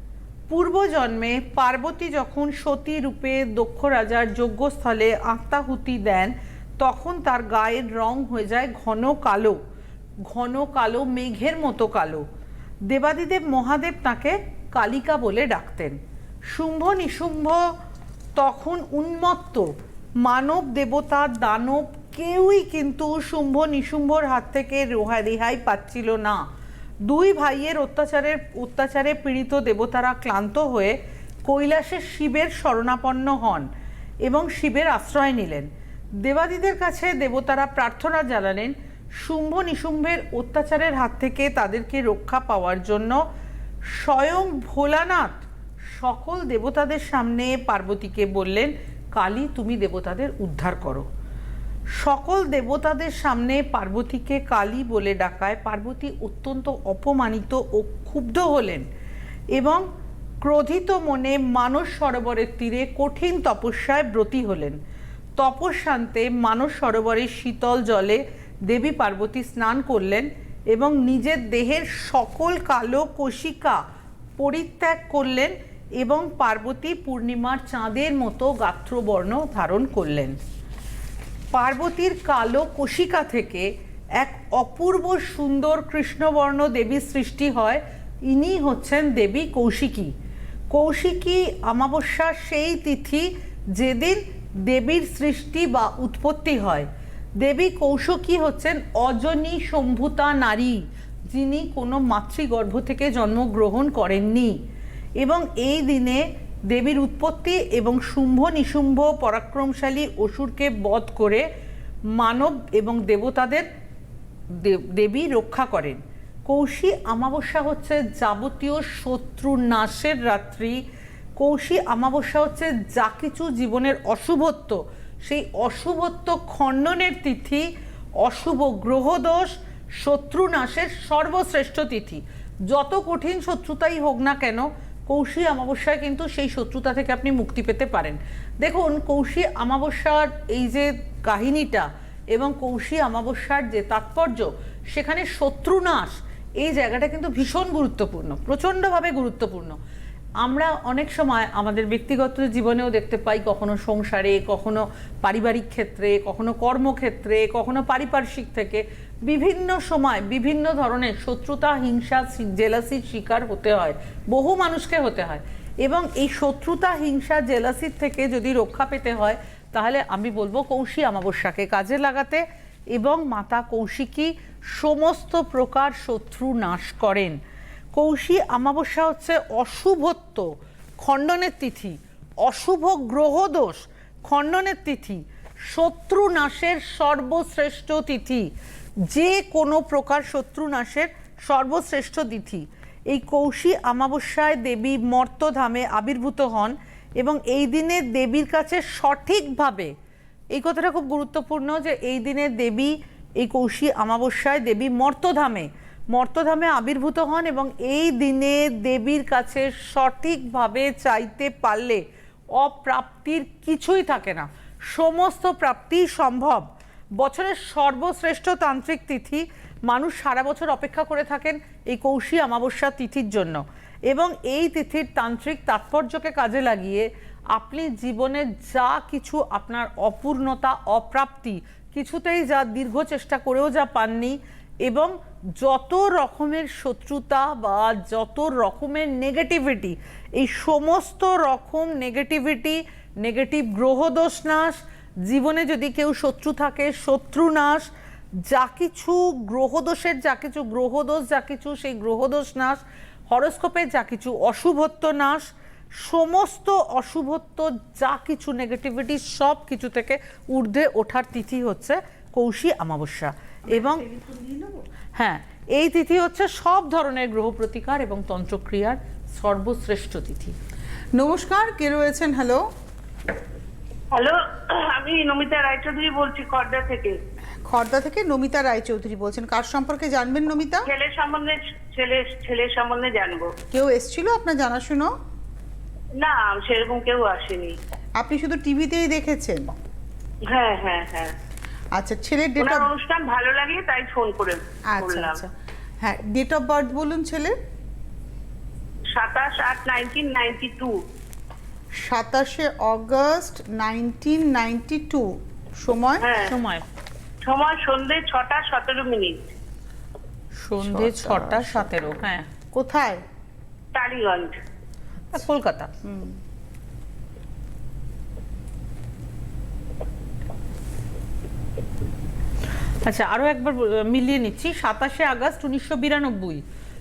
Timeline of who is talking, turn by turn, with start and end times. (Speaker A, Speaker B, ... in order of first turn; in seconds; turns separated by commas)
Speaker A: 0.5-9.6, Speaker A: 10.3-12.2, Speaker A: 12.9-16.0, Speaker A: 16.5-17.6, Speaker A: 18.4-26.4, Speaker A: 27.1-33.7, Speaker A: 34.2-35.7, Speaker A: 36.2-43.2, Speaker A: 43.9-45.4, Speaker A: 46.0-51.1, Speaker A: 52.0-58.9, Speaker A: 59.5-59.9, Speaker A: 60.4-64.8, Speaker A: 65.4-73.8, Speaker A: 74.4-80.4, Speaker A: 81.5-90.1, Speaker A: 90.7-96.9, Speaker A: 97.4-104.6, Speaker A: 105.2-111.5, Speaker A: 112.1-113.7, Speaker A: 114.5-120.8, Speaker A: 121.4-127.7, Speaker A: 128.2-149.8, Speaker A: 150.4-177.4, Speaker A: 177.9-180.5, Speaker A: 181.0-188.5, Speaker A: 189.1-199.9, Speaker A: 200.5-247.9, Speaker A: 248.4-252.8, Speaker A: 253.3-264.1, Speaker B: 263.7-264.9, Speaker A: 265.2-270.6, Speaker B: 271.1-272.7, Speaker C: 274.1-277.2, Speaker B: 277.6-280.9, Speaker C: 280.9-283.5, Speaker B: 283.7-285.1, Speaker C: 286.2-287.8, Speaker B: 288.2-289.7, Speaker C: 290.5-291.3, Speaker B: 291.9-292.9, Speaker C: 292.6-295.4, Speaker B: 294.9-297.6, Speaker C: 299.1-301.0, Speaker B: 301.9-306.3, Speaker C: 306.2-306.5, Speaker A: 306.4-306.8, Speaker C: 307.4-309.5, Speaker A: 310.6-312.5, Speaker B: 310.8-311.9, Speaker B: 312.7-313.2, Speaker C: 313.9-314.6, Speaker A: 315.3-315.9, Speaker B: 316.0-316.4, Speaker A: 323.0-326.6